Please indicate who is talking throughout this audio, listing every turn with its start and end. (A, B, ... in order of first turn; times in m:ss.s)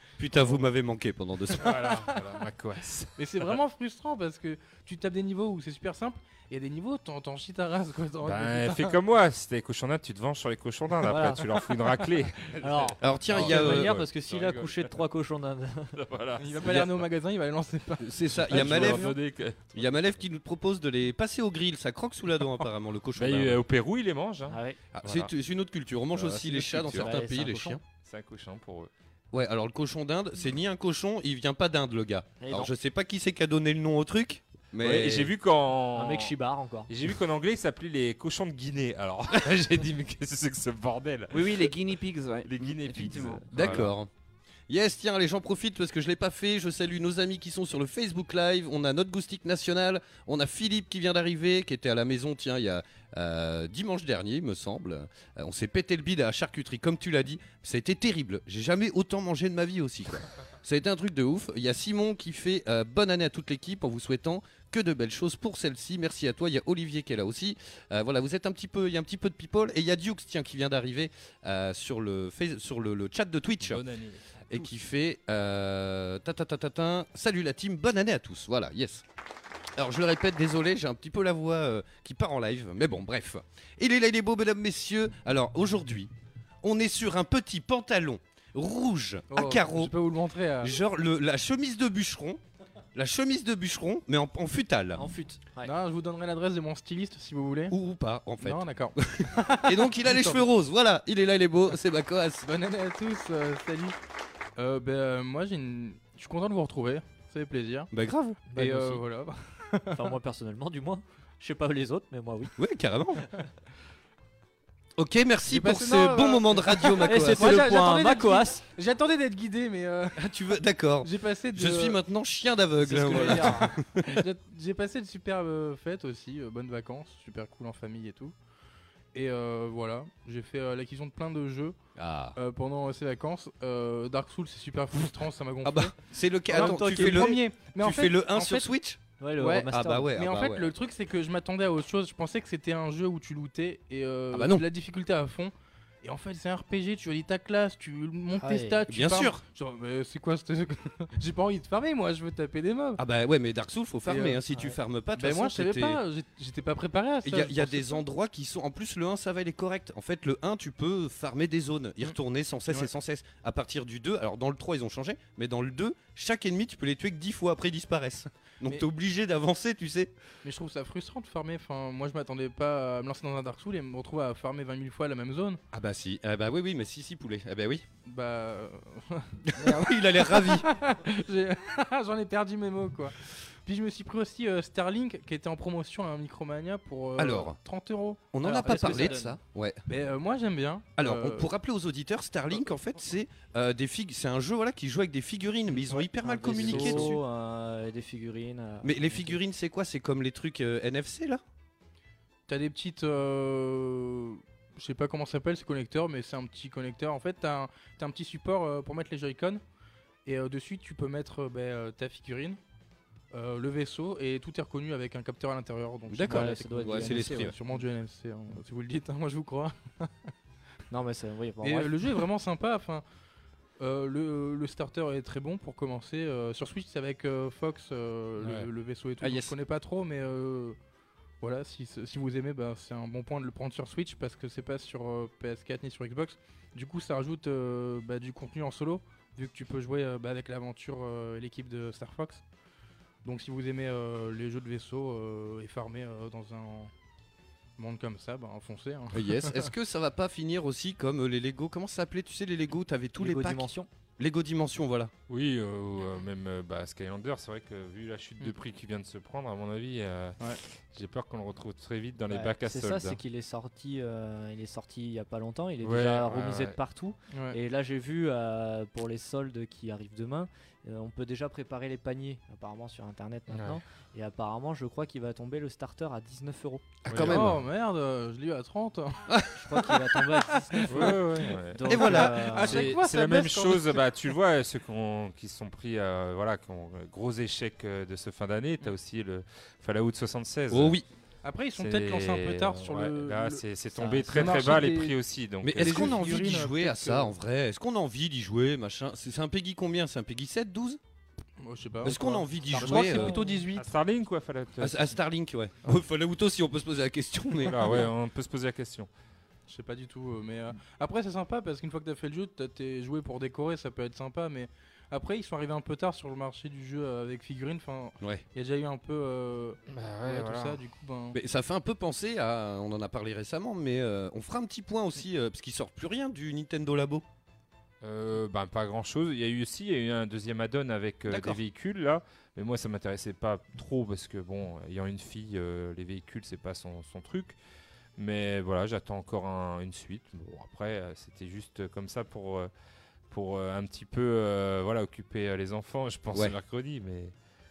0:00.2-0:01.9 A
0:01.6-0:03.1 B
0:01.7-0:02.0 C
0:03.2-0:09.0 C
0:08.2-0:14.8 B
0:11.0-0:11.9 D
0:12.6-0:16.0 D
0:13.0-0:13.9 A
0:16.0-0:16.9 B
0:16.4-0:19.1 C
0:16.6-0:16.9 A
0:18.0-0:19.1 A
0:18.4-0:20.2 B
0:19.8-0:23.6 A
0:23.2-0:25.3 B
0:24.5-0:24.8 D
0:24.9-0:27.8 A
0:26.1-0:27.1 B
0:26.9-0:27.8 D
0:27.9-0:28.9 B
0:29.3-0:35.3 A
0:32.4-0:32.7 D
0:34.8-0:36.3 B
0:35.9-0:36.9 D
0:36.9-0:41.7 B
0:41.3-0:43.5 E
0:42.5-0:43.9 B
0:43.5-0:44.1 A
0:44.7-1:13.8 A
1:13.7-1:14.7 B
1:14.5-1:19.0 A
1:19.8-1:26.1 A
1:26.6-1:29.9 A
1:29.3-1:30.8 C
1:30.6-1:32.4 A
1:33.0-1:35.0 A
1:35.0-1:35.7 D
1:35.6-1:37.8 C
1:37.7-1:38.6 A
1:38.4-1:40.4 C
1:39.1-1:42.5 A
1:42.4-1:44.0 C
1:44.6-1:47.9 C
1:47.9-1:48.4 A
1:48.5-1:49.0 D
1:48.5-1:50.0 C
1:49.9-1:52.5 D
1:52.6-1:53.3 A
1:55.0-1:57.7 A
1:55.5-2:00.2 C
1:57.0-1:58.6 D
2:00.2-2:04.2 A
2:01.0-2:02.0 C
2:02.8-2:08.3 C
2:02.9-2:03.7 D
2:09.1-2:11.8 C
2:12.0-2:12.4 A
2:12.4-2:15.9 C
2:15.6-2:20.7 A
2:16.5-2:18.7 C
2:16.5-2:17.4 D
2:19.2-2:20.1 D
2:20.1-2:33.0 C
2:24.3-2:24.6 A
2:28.4-2:28.8 D
2:28.9-2:29.4 A
2:33.0-2:36.0 A
2:34.1-2:34.6 C
2:35.2-2:38.0 C
2:37.2-2:50.1 A
2:50.4-2:55.6 C
2:55.7-2:57.8 A
2:58.0-3:09.2 C
2:59.5-3:00.7 A
3:07.2-3:07.6 A
3:08.3-3:09.8 A
3:08.4-3:09.4 D
3:09.9-3:11.5 C
3:11.0-3:17.2 A
3:16.0-3:19.4 D
3:16.5-3:17.2 C
3:18.8-3:21.4 A
3:22.5-3:29.6 C
3:30.2-3:32.6 C
3:33.3-3:40.3 C
3:36.1-3:37.6 A
3:36.3-3:37.8 D
3:40.9-3:41.9 D
3:41.6-3:43.0 C
3:43.8-3:50.8 C
3:48.4-3:48.7 B
3:49.2-3:49.5 A
3:51.4-4:02.4 C
4:03.2-4:06.9 C
4:07.8-4:09.7 C
4:09.1-4:15.1 A
4:13.2-4:13.9 D
4:15.3-4:23.2 B
4:22.3-4:36.9 D
4:25.8-4:26.8 B
4:27.3-4:27.6 C
4:33.5-4:33.8 B
4:37.1-4:37.6 A
4:37.1-4:37.6 B
4:37.2-4:39.2 C
4:39.3-4:39.5 A
4:39.6-4:42.9 D
4:40.7-4:44.1 C
4:40.9-4:51.0 B
4:41.9-4:42.4 A
4:50.7-4:51.0 A
4:51.4-4:53.6 C
4:51.8-4:56.2 B
4:54.0-4:54.7 D
4:54.3-4:55.2 C
4:55.6-5:01.0 A
4:55.8-4:57.3 C
5:01.6-5:03.9 C
5:02.0-5:03.4 A
5:02.7-5:03.5 D
5:03.8-5:05.1 B
5:04.8-5:08.0 A
5:07.7-5:09.1 B
5:09.7-5:21.4 C
5:19.9-5:20.8 B
5:21.3-5:27.2 A
5:28.0-5:37.6 B
5:31.3-5:31.6 A
5:38.2-5:42.7 B
5:43.3-5:47.3 B